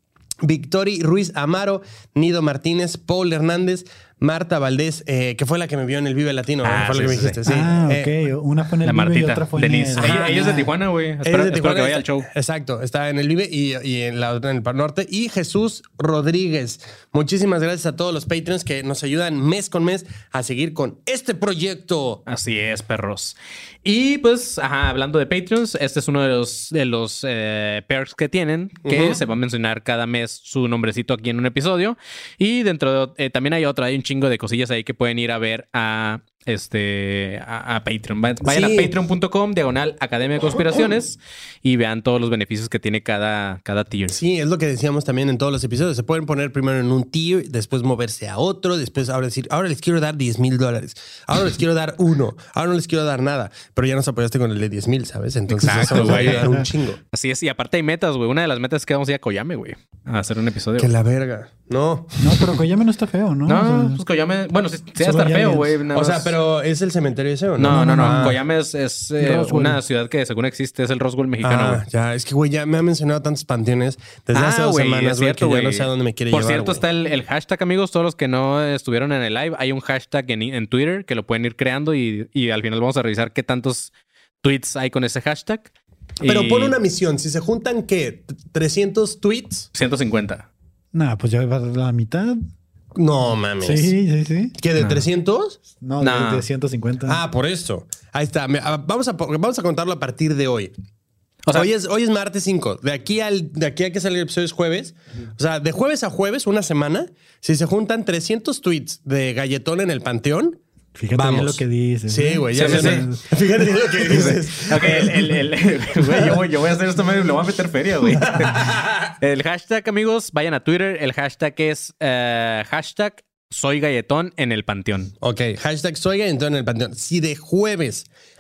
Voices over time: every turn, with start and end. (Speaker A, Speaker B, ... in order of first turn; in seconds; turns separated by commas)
Speaker A: 0.4-8.2, Speaker B: 6.6-7.4, Speaker C: 7.5-10.7, Speaker B: 8.8-12.3, Speaker A: 10.0-10.6, Speaker A: 11.2-22.2, Speaker B: 22.3-44.2, Speaker A: 28.9-29.2, Speaker A: 38.4-38.9, Speaker A: 44.1-57.0, Speaker B: 55.6-56.5, Speaker C: 55.7-56.7, Speaker B: 57.1-60.9, Speaker A: 60.8-62.6, Speaker C: 62.2-64.0, Speaker B: 63.5-66.3, Speaker C: 65.0-65.8, Speaker A: 65.9-68.4, Speaker B: 67.6-71.8, Speaker C: 67.7-68.4, Speaker C: 69.2-69.8, Speaker A: 71.4-76.8, Speaker B: 74.3-83.9, Speaker B: 84.4-86.8, Speaker A: 86.2-89.7, Speaker B: 89.7-90.5, Speaker C: 90.9-92.4, Speaker A: 93.0-93.9, Speaker C: 93.6-94.5, Speaker A: 94.6-95.6, Speaker B: 94.8-95.1, Speaker C: 95.8-97.2, Speaker B: 96.0-96.5, Speaker A: 97.1-100.7, Speaker A: 101.5-110.6, Speaker C: 111.0-113.3, Speaker A: 111.2-115.3, Speaker B: 112.5-113.1, Speaker B: 114.1-125.1, Speaker A: 116.0-116.4, Speaker A: 118.2-119.1, Speaker A: 125.2-128.1